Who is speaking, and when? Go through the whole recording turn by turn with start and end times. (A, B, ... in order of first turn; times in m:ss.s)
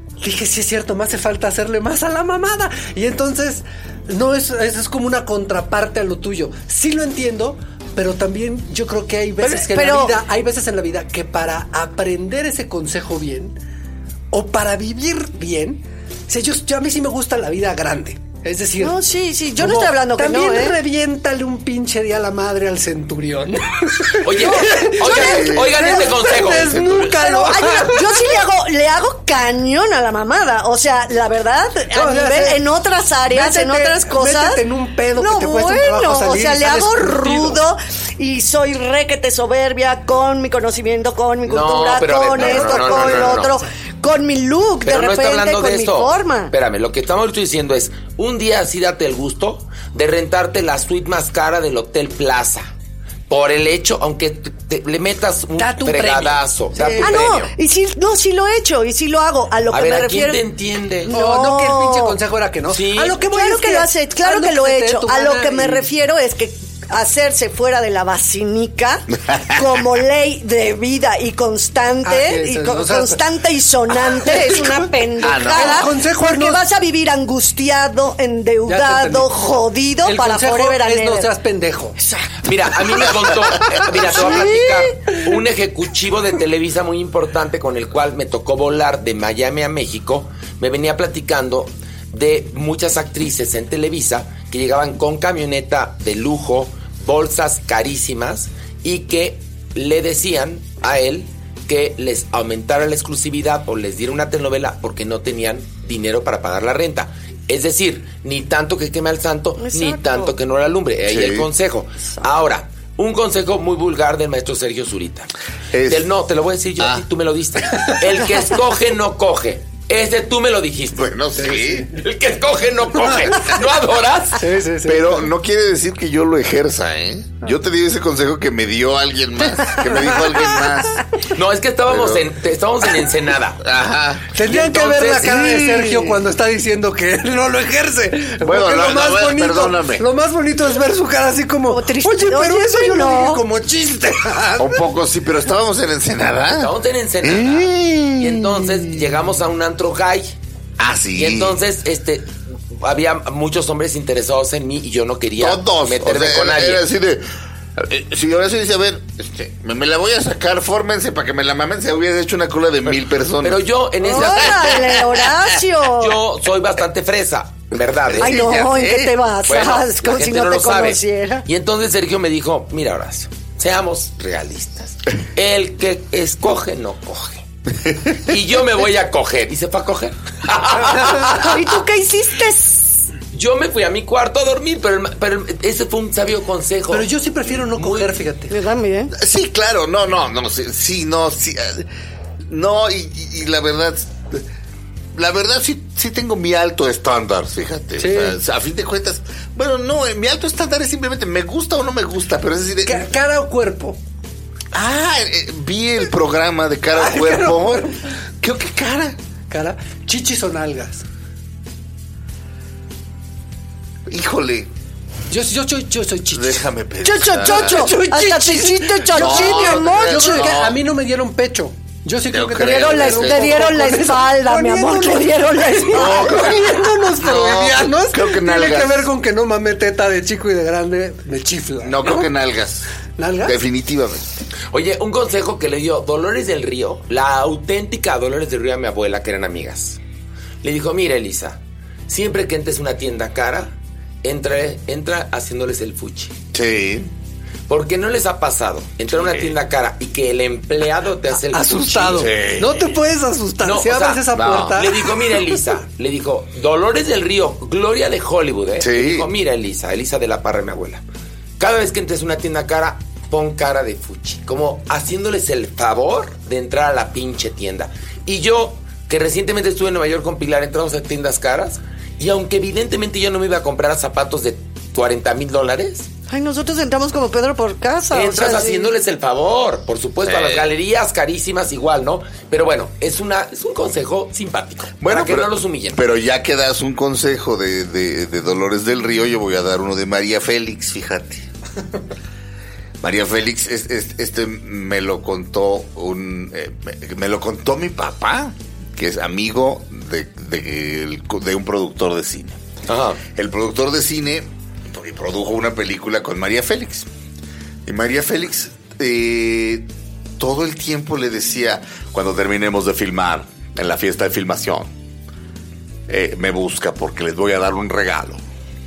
0:00.2-0:13.6 A
0:09.4-0:10.2 B
0:14.3-0:19.0 A
0:18.8-0:20.8 B
0:19.6-0:28.4 A
0:24.1-0:27.2 C
0:25.0-0:25.9 D
0:27.2-0:34.6 B
0:31.9-0:32.6 A
0:33.3-0:37.6 A
0:35.2-0:46.5 B
0:41.5-0:43.5 C
0:42.4-0:43.7 A
0:44.9-0:52.7 C
0:53.3-0:57.5 C
0:55.6-0:57.2 A
0:56.8-1:00.4 B
0:59.7-1:01.1 C
1:01.1-1:02.2 B
1:01.1-1:05.9 A
1:02.7-1:03.2 C
1:03.3-1:21.3 B
1:12.0-1:13.2 A
1:14.1-1:16.6 A
1:15.2-1:15.9 D
1:18.7-1:19.3 A
1:20.0-1:22.0 A
1:22.0-1:22.5 B
1:22.4-1:55.3 C
1:24.0-1:24.6 A
1:24.1-1:24.9 B
1:49.6-1:50.3 B
1:51.1-1:51.5 D
1:55.7-1:56.0 D
1:55.8-2:04.5 C
2:01.0-2:01.9 D
2:04.4-2:05.3 A
2:04.9-2:11.2 D
2:09.6-2:10.8 A
2:11.3-2:13.6 C
2:11.9-2:12.2 D
2:13.6-2:14.2 D
2:14.2-2:15.8 C
2:14.4-2:24.8 A
2:18.4-2:20.0 D
2:21.7-2:23.4 B
2:24.6-2:26.7 D
2:26.6-2:30.4 C
2:27.2-2:29.1 D
2:30.8-2:31.6 D
2:31.2-2:36.8 C
2:35.4-2:43.6 D
2:43.4-2:45.0 C
2:44.0-2:46.2 B
2:44.2-2:45.2 D
2:45.9-2:48.5 C
2:48.1-2:49.2 D
2:48.2-2:51.5 B
2:49.5-2:57.4 C
2:58.0-3:01.8 C
3:01.4-3:03.1 B
3:03.3-3:07.1 C
3:06.9-3:08.6 A
3:07.8-3:08.1 C
3:08.5-3:09.1 B
3:09.2-3:11.9 D
3:12.5-3:14.4 D
3:15.1-3:23.1 D
3:18.0-3:18.4 A
3:22.8-3:24.0 A
3:24.7-3:29.2 D
3:26.9-3:28.1 A
3:29.5-3:31.0 A
3:34.1-3:34.7 D
3:35.3-3:36.7 A
3:36.3-3:38.0 D
3:37.0-3:40.6 B
3:37.3-3:52.3 A
3:39.1-3:40.8 D
3:42.3-3:43.7 D
3:42.6-3:46.6 B
3:45.8-3:49.1 D
3:51.8-3:52.9 D
3:53.2-3:53.6 A
3:53.4-3:54.3 D
3:54.7-4:00.0 C
4:00.6-4:06.4 C
4:06.5-4:07.1 D
4:07.7-4:12.4 C
4:11.5-4:15.6 A
4:12.2-4:12.8 D
4:13.6-4:21.0 C
4:14.4-4:14.7 D
4:18.8-4:19.3 D
4:21.6-4:36.1 C
4:36.3-4:38.9 B
4:38.1-4:46.0 C
4:40.3-4:40.7 D
4:45.0-4:51.5 D
4:53.0-5:02.6 D
5:02.9-5:03.2 C
5:03.3-5:07.1 D
5:07.9-5:09.9 D
5:10.4-5:14.9 D
5:16.1-5:18.4 D